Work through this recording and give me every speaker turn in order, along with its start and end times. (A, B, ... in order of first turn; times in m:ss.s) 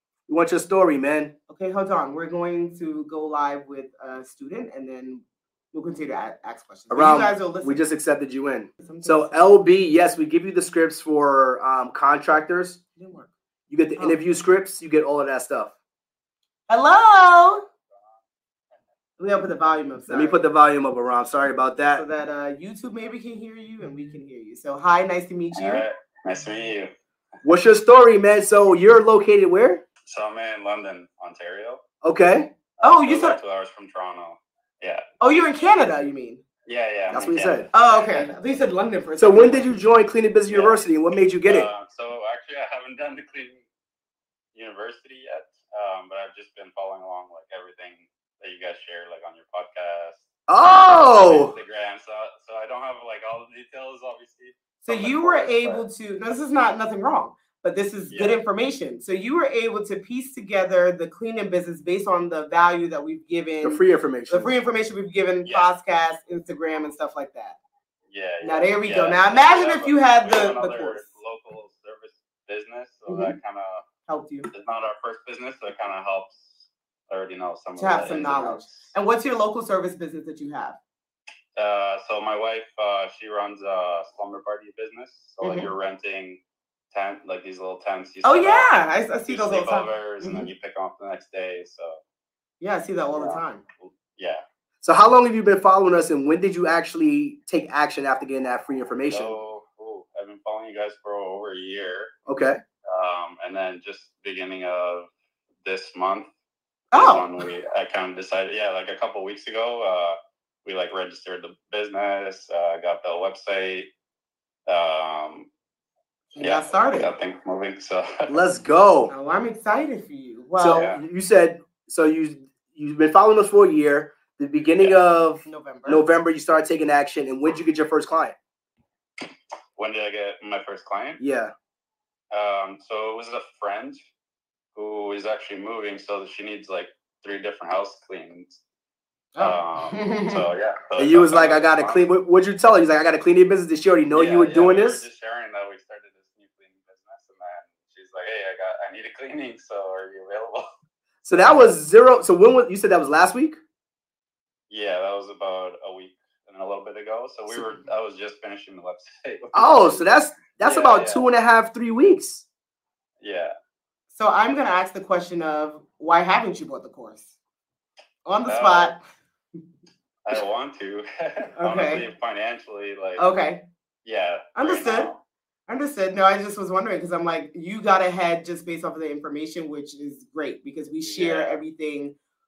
0:00.3-0:01.3 A
0:01.5-0:07.8 B
0:06.9-0:12.8 A
0:08.8-0:09.4 B
0:13.0-0:13.3 B
0:13.7-0:15.7 A
0:16.7-0:17.6 B
0:19.2-0:20.4 B
0:20.1-0:22.0 A
0:21.9-0:25.8 B
0:25.5-0:26.9 C
0:27.4-0:29.8 A
0:30.0-0:31.8 C
0:32.0-0:32.5 A
0:32.8-0:35.0 C
0:32.8-0:33.4 B
0:35.2-0:36.4 B
0:36.6-0:38.3 C
0:37.1-0:37.7 A
0:37.7-0:39.7 B
0:39.2-0:41.7 A
0:40.5-0:40.8 C
0:41.4-0:43.6 C
0:44.5-0:50.2 C
0:50.5-0:51.5 A
0:51.1-0:55.8 C
0:54.8-1:07.6 B
0:58.1-0:58.4 C
1:03.6-1:04.6 A
1:08.1-1:13.8 C
1:08.4-1:11.1 B
1:13.1-1:13.4 B
1:14.1-1:14.5 B
1:14.5-1:18.9 C
1:17.8-1:20.8 B
1:21.6-1:26.4 C
1:25.4-1:25.7 B
1:26.9-1:28.7 C
1:28.2-1:30.5 B
1:29.3-1:32.0 C
1:32.6-1:33.6 B
1:33.8-1:34.4 C
1:34.8-1:39.3 A
1:39.1-1:42.1 C
1:42.3-1:42.6 A
1:42.9-1:45.1 C
1:45.6-1:46.3 C
1:46.9-1:47.3 B
1:46.9-1:53.9 C
1:54.7-1:55.5 C
1:56.3-1:57.1 B
1:56.4-1:58.3 C
1:58.3-1:59.1 A
1:59.1-2:00.9 B
2:00.6-2:08.4 A
2:00.7-2:01.0 C
2:05.4-2:06.0 B
2:09.8-2:11.2 C
2:11.2-2:11.5 A
2:12.3-2:14.0 C
2:14.7-2:18.6 C
2:19.3-2:20.4 B
2:19.4-2:22.0 C
2:21.0-2:25.0 A
2:24.1-2:30.6 C
2:31.2-2:33.6 A
2:34.7-2:41.2 C
2:39.5-2:42.4 A
2:43.2-2:43.5 C
2:44.1-2:47.3 B
2:48.2-2:49.0 B
2:48.4-2:48.9 C
2:50.2-2:53.2 C
2:51.6-2:52.0 B
2:53.2-2:53.6 B
2:54.0-2:55.2 C
2:54.5-2:55.1 B
2:55.7-3:02.2 B
3:01.0-3:01.5 C